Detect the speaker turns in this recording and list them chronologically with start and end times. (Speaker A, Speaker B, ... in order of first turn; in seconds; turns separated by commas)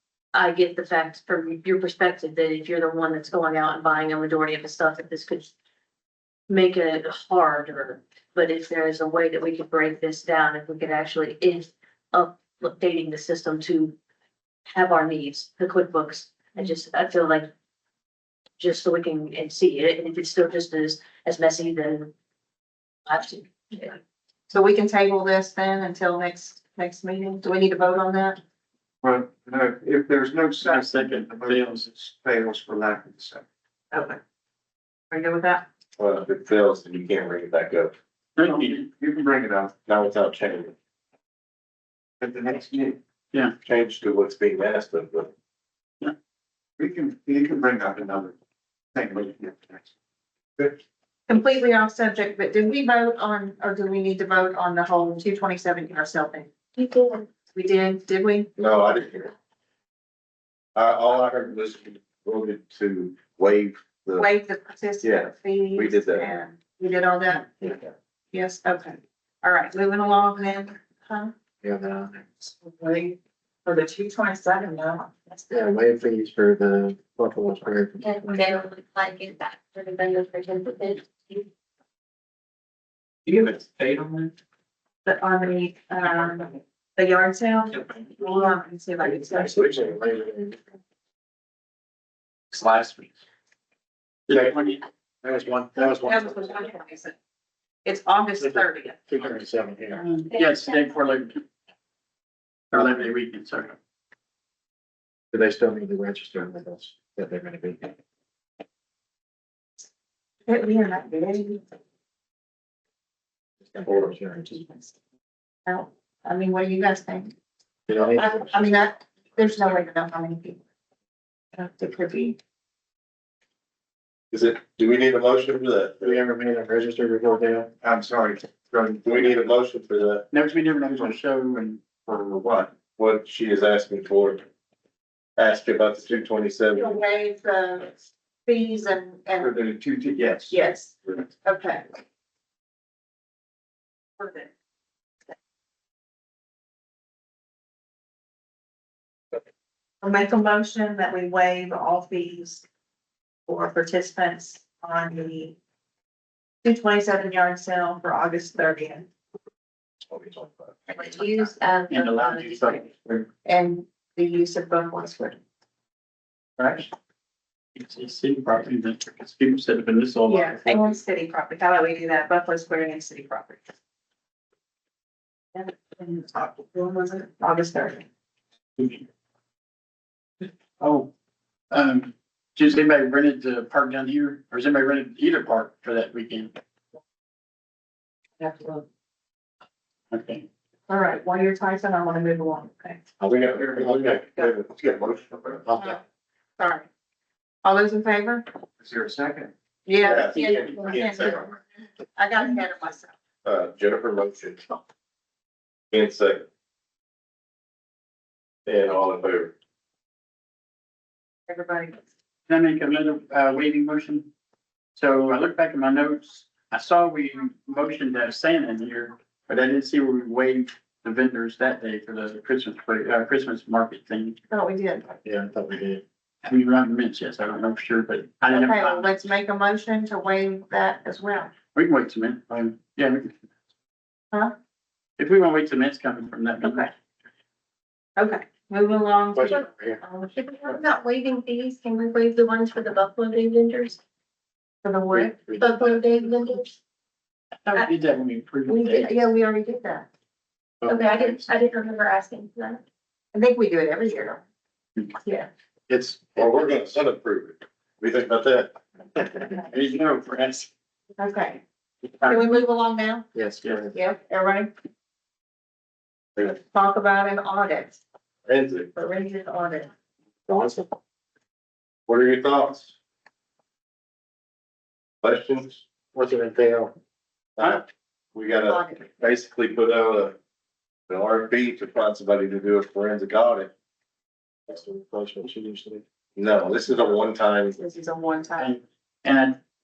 Speaker A: 0.3-5.5, Speaker A: 6.5-13.9, Speaker A: 14.7-17.5, Speaker A: 18.6-22.1, Speaker A: 23.1-24.0, Speaker B: 24.5-28.4, Speaker C: 29.0-33.5, Speaker D: 30.6-31.9, Speaker B: 33.9-34.2, Speaker B: 35.1-35.7, Speaker E: 36.0-37.9, Speaker D: 38.4-38.9, Speaker C: 38.7-39.7, Speaker E: 39.9-40.7, Speaker C: 42.2-43.0, Speaker E: 43.6-45.3, Speaker C: 46.8-48.4, Speaker C: 48.9-49.9, Speaker B: 51.3-56.5, Speaker F: 56.8-57.2, Speaker B: 57.5-58.5, Speaker E: 58.6-59.3, Speaker E: 60.8-64.3, Speaker B: 64.2-67.8, Speaker E: 65.0-66.3, Speaker B: 68.3-71.3, Speaker G: 71.6-72.3, Speaker B: 72.5-75.6, Speaker G: 75.5-78.1, Speaker F: 78.0-81.5, Speaker C: 83.3-84.3, Speaker B: 85.0-89.5, Speaker G: 89.3-90.6, Speaker G: 92.5-93.1, Speaker D: 94.3-94.8, Speaker G: 95.2-96.5, Speaker B: 95.8-97.2, Speaker B: 97.8-99.0, Speaker G: 98.4-100.0, Speaker D: 100.0-101.4, Speaker D: 102.7-103.8, Speaker G: 105.3-107.9, Speaker B: 110.5-111.6, Speaker G: 113.8-114.5, Speaker B: 113.8-114.9, Speaker B: 115.7-117.3, Speaker G: 117.9-118.9, Speaker B: 118.1-120.6, Speaker B: 121.5-122.4, Speaker E: 124.3-126.2, Speaker G: 126.0-127.7, Speaker C: 127.8-129.3, Speaker E: 129.0-130.3, Speaker D: 130.3-132.2, Speaker C: 132.2-132.7, Speaker E: 133.0-134.4, Speaker E: 135.4-136.9, Speaker B: 136.8-139.6, Speaker C: 139.4-140.6, Speaker B: 140.5-141.8, Speaker B: 144.2-144.5, Speaker B: 150.0-152.6, Speaker B: 153.5-155.6, Speaker B: 156.6-159.1, Speaker E: 160.2-160.5, Speaker D: 161.9-163.3, Speaker F: 162.1-162.4, Speaker B: 163.4-165.4, Speaker D: 167.8-170.9, Speaker B: 170.3-173.7, Speaker B: 175.6-178.1, Speaker D: 178.8-179.0, Speaker D: 180.8-181.1, Speaker D: 181.7-186.6, Speaker B: 188.4-188.8, Speaker D: 190.1-190.4, Speaker B: 190.9-193.1, Speaker E: 193.2-195.7, Speaker G: 193.2-194.3, Speaker G: 195.7-196.0, Speaker B: 196.6-196.9, Speaker B: 197.6-198.5, Speaker C: 198.8-199.5, Speaker B: 199.9-201.6, Speaker E: 200.0-201.5, Speaker D: 200.3-201.0, Speaker B: 202.2-203.1, Speaker E: 203.4-204.7, Speaker E: 205.9-206.5, Speaker E: 208.7-209.5, Speaker B: 211.5-212.0, Speaker D: 212.5-214.3, Speaker D: 215.0-224.4, Speaker B: 224.5-225.2, Speaker G: 225.2-226.0, Speaker D: 226.4-229.1, Speaker B: 228.5-231.5, Speaker D: 231.7-233.3, Speaker D: 235.2-236.9, Speaker B: 236.6-236.9, Speaker B: 238.2-240.4, Speaker G: 239.3-240.0, Speaker F: 240.4-244.0, Speaker B: 244.8-245.4, Speaker D: 245.1-245.7, Speaker F: 245.6-246.7, Speaker D: 247.6-249.3, Speaker B: 248.7-250.1, Speaker F: 250.9-252.8, Speaker B: 253.3-254.4, Speaker B: 255.2-255.5, Speaker G: 255.9-256.5, Speaker E: 256.4-258.8, Speaker D: 259.7-260.7, Speaker B: 261.2-261.6, Speaker B: 262.2-263.3, Speaker G: 263.3-264.0, Speaker B: 263.9-264.7, Speaker B: 266.4-268.0, Speaker E: 268.5-268.9, Speaker B: 268.9-269.9, Speaker G: 270.5-270.9, Speaker E: 272.1-272.9, Speaker E: 275.2-275.8, Speaker G: 276.1-276.9, Speaker E: 277.6-280.4, Speaker B: 278.7-279.1, Speaker E: 281.1-283.7, Speaker G: 284.7-286.0, Speaker E: 286.4-287.8, Speaker B: 287.8-288.8, Speaker D: 288.6-289.6